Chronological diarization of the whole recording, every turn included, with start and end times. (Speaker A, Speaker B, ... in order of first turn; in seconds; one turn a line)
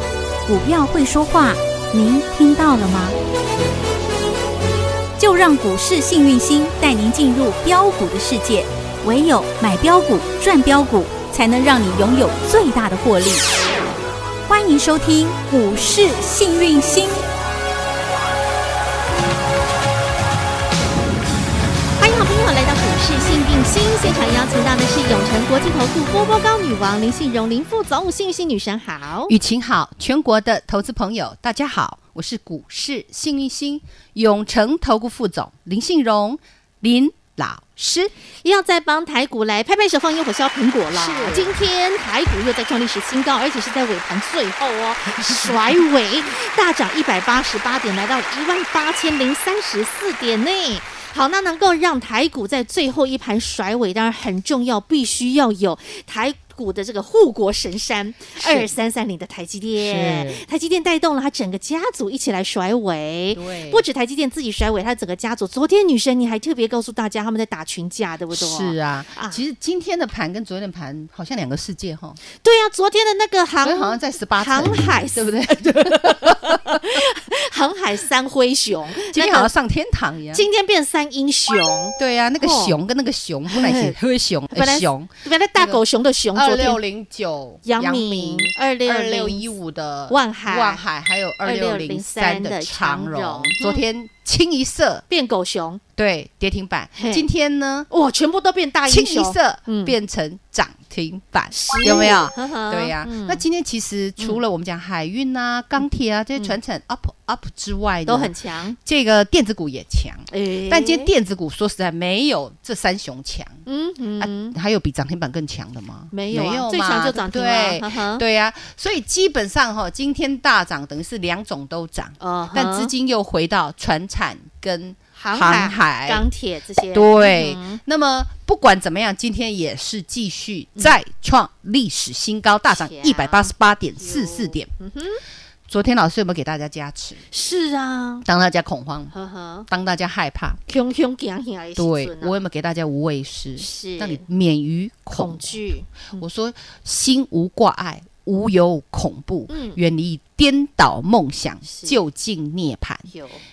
Speaker A: 0.5-3.1
Speaker A: 5.2-13.4
Speaker A: 14.5-17.2
Speaker B: 22.0-29.3
Speaker C: 29.3-38.1
Speaker B: 38.4-69.4
Speaker C: 40.9-41.5
Speaker C: 58.4-58.7
Speaker C: 59.8-60.4
Speaker C: 63.3-63.8
Speaker C: 68.3-72.2
Speaker B: 72.3-79.5
Speaker C: 73.6-76.9
Speaker C: 79.1-80.4
Speaker B: 80.3-82.8
Speaker C: 82.0-85.8
Speaker B: 83.5-83.9
Speaker B: 84.5-86.8
Speaker C: 86.3-95.0
Speaker B: 87.6-89.5
Speaker B: 90.1-90.8
Speaker B: 91.4-93.8
Speaker B: 95.1-95.8
Speaker C: 96.0-97.9
Speaker B: 97.0-97.2
Speaker B: 97.9-99.9
Speaker C: 98.9-113.6
Speaker B: 101.5-103.4
Speaker B: 108.0-108.8
Speaker B: 110.3-111.1
Speaker B: 113.7-114.5
Speaker C: 114.2-126.2
Speaker B: 116.1-118.2
Speaker B: 122.2-122.9
Speaker B: 125.2-127.8
Speaker C: 126.8-134.7
Speaker B: 132.7-135.2
Speaker C: 135.7-137.2
Speaker B: 137.3-138.2
Speaker C: 138.2-139.1
Speaker B: 139.1-139.7
Speaker C: 139.7-140.6
Speaker B: 140.7-142.3
Speaker C: 141.8-145.6
Speaker B: 143.6-144.2
Speaker B: 145.1-146.2
Speaker C: 146.2-153.1
Speaker B: 149.5-149.8
Speaker B: 151.6-151.9
Speaker B: 153.1-153.4